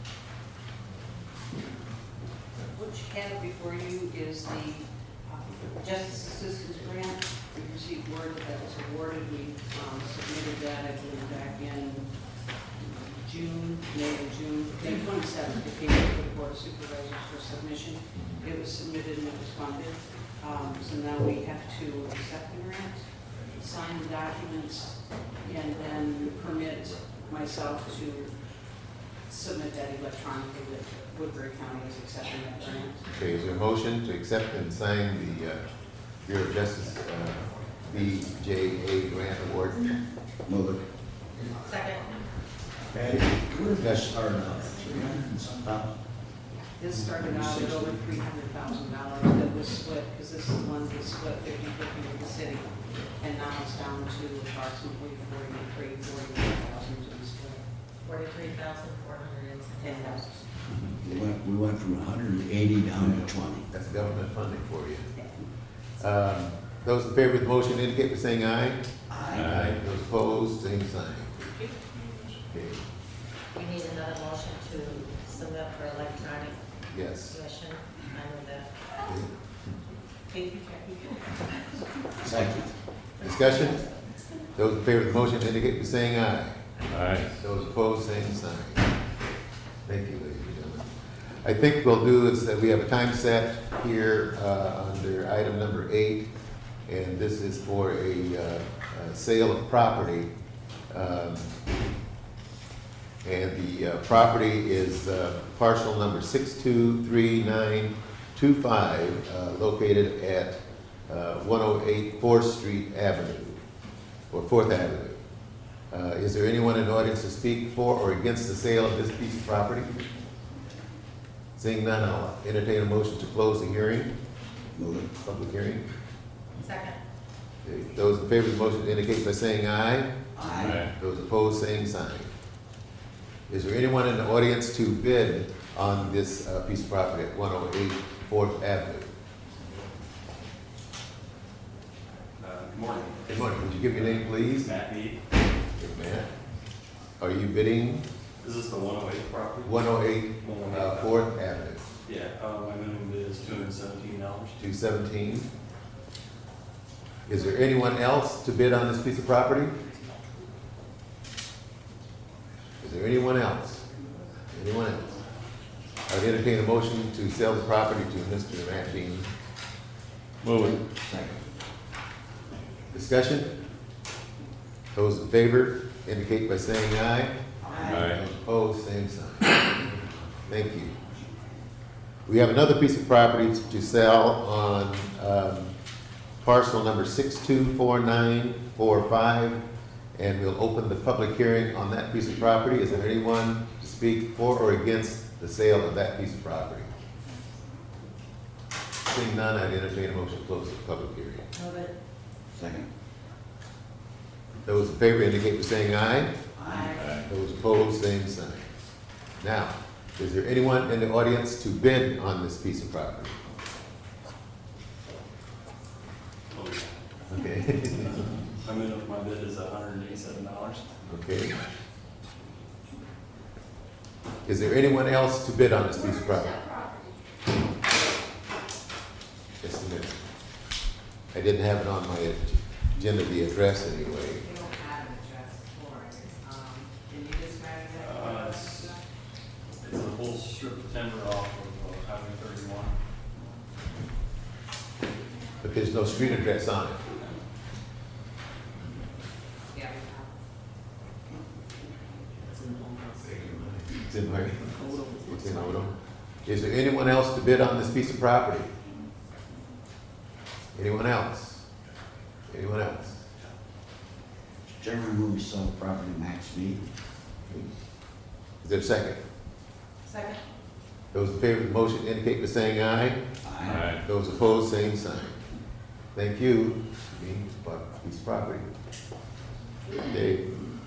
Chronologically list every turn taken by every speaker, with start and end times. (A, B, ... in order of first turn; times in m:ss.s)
0:02.7-0:12.1 A
0:12.8-0:28.4 A
0:29.3-0:33.0 A
0:33.1-0:35.6 B
0:36.2-0:39.9 B
0:40.4-0:40.8 C
0:41.6-0:42.0 D
0:42.9-0:45.9 C
0:46.6-0:57.6 A
0:47.0-0:48.0 C
0:58.0-1:00.4 D
0:59.8-1:00.4 A
1:01.0-1:03.6 C
1:03.7-1:05.1 B
1:05.2-1:05.5 A
1:06.0-1:11.6 B
1:09.1-1:09.6 C
1:09.3-1:09.8 E
1:12.3-1:12.8 B
1:13.5-1:16.6 D
1:16.9-1:17.4 B
1:17.3-1:18.7 D
1:19.0-1:19.3 B
1:20.3-1:21.4 A
1:22.2-1:22.7 C
1:23.2-1:23.8 B
1:24.5-1:26.6 B
1:26.9-1:27.3 E
1:27.4-1:28.8 B
1:29.8-1:30.9 B
1:31.4-1:36.3 B
1:36.9-1:40.3 B
1:40.9-1:41.5 B
1:43.2-1:53.6 B
1:54.3-1:55.2 B
1:55.9-1:59.9 B
2:01.6-2:04.1 B
2:04.8-2:05.1 C
2:05.2-2:05.8 B
2:06.6-2:07.0 D
2:07.6-2:10.1 B
2:10.3-2:10.8 C
2:10.6-2:10.9 E
2:10.9-2:12.3 B
2:13.5-2:19.1 B
2:22.4-2:25.2 F
2:23.3-2:24.7 B
2:25.8-2:26.3 B
2:27.2-2:28.0 B
2:28.4-2:29.8 F
2:29.6-2:31.8 B
2:30.4-2:31.2 F
2:32.0-2:34.6 F
2:34.6-2:35.5 B
2:37.3-2:39.8 B
2:42.8-2:43.8 B
2:44.5-2:45.2 B
2:46.1-2:49.3 B
2:50.4-2:50.8 E
2:50.6-2:51.4 C
2:52.9-2:53.5 B
2:54.9-2:59.6 B
2:57.6-2:58.1 C
2:57.9-2:58.2 E
3:00.4-3:00.9 B
3:02.2-3:05.7 B
3:06.4-3:09.6 B
3:10.1-3:16.9 B
3:19.0-3:21.5 B
3:21.5-3:21.9 D
3:22.5-3:22.9 C
3:24.6-3:26.3 B
3:26.6-3:27.1 C
3:26.8-3:27.2 E
3:27.2-3:28.7 B
3:29.4-3:33.4 B
3:36.5-3:37.0 F
3:37.3-3:38.2 B
3:38.6-3:40.9 F
3:41.0-3:41.5 B
3:44.4-3:46.8 B
3:49.6-3:50.2 B
3:51.3-3:54.4 B
3:57.9-3:59.0 F
3:59.8-4:03.0 F
4:05.6-4:07.0 B
4:09.7-4:10.3 A
4:12.8-4:13.1 A
4:13.2-4:15.9 B
4:14.8-4:15.2 A
4:16.4-4:18.7 B
4:20.7-4:21.6 B
4:22.5-4:23.3 B
4:24.8-4:26.8 C
4:28.6-4:29.2 B
4:30.0-4:30.4 D
4:31.1-4:33.2 B
4:33.4-4:34.0 C
4:33.6-4:34.0 E
4:34.0-4:35.4 B
4:36.1-4:38.7 B
4:40.0-4:40.6 B